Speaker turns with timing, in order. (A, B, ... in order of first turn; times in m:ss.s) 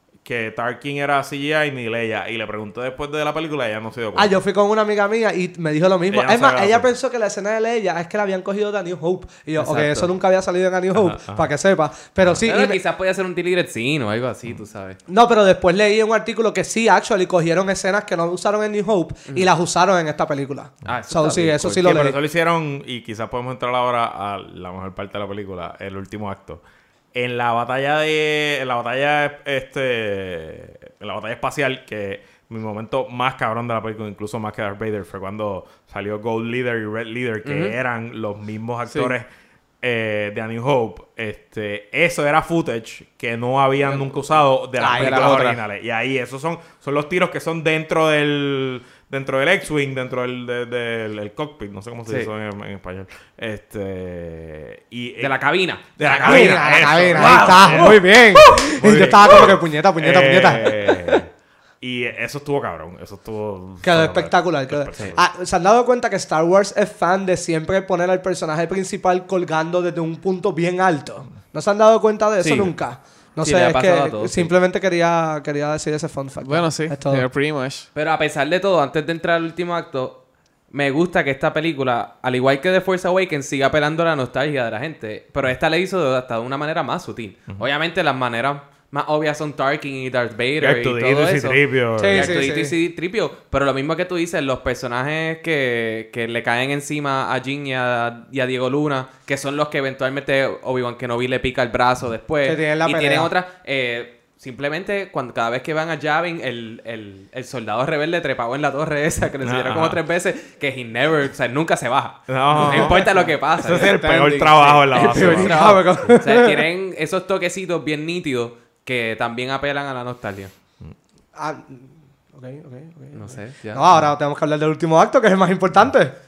0:00.2-0:04.4 A
0:04.1-0:12.8 B
0:06.1-0:06.9 A
0:09.6-0:10.1 C
0:10.9-0:11.5 A
0:12.4-0:15.0 C
0:15.1-0:22.2 B
0:20.8-0:21.8 C
0:21.8-0:26.6 A
0:27.1-0:39.2 A
0:37.4-0:37.8 C
0:38.9-0:39.1 D
0:39.8-0:55.4 A
0:43.9-0:44.2 D
0:44.8-0:45.3 B
0:44.9-0:45.6 D
0:55.2-0:58.7 C
0:56.0-1:01.3 A
0:56.2-1:01.2 B
1:01.8-1:05.2 A
1:03.8-1:17.2 B
1:12.4-1:12.7 D
1:13.4-1:14.5 C
1:16.4-1:17.9 D
1:17.9-1:20.2 C
1:20.7-1:53.9 C
1:30.6-1:32.3 A
1:32.0-1:32.7 B
1:42.4-1:43.3 B
1:49.4-1:50.0 A
1:52.3-1:52.9 A
1:52.6-1:52.9 D
1:52.7-1:53.2 B
1:53.6-1:55.6 A
1:53.6-1:55.6 D
1:54.9-2:00.5 C
1:55.4-1:56.6 B
2:01.4-2:06.1 B
2:03.1-2:04.1 C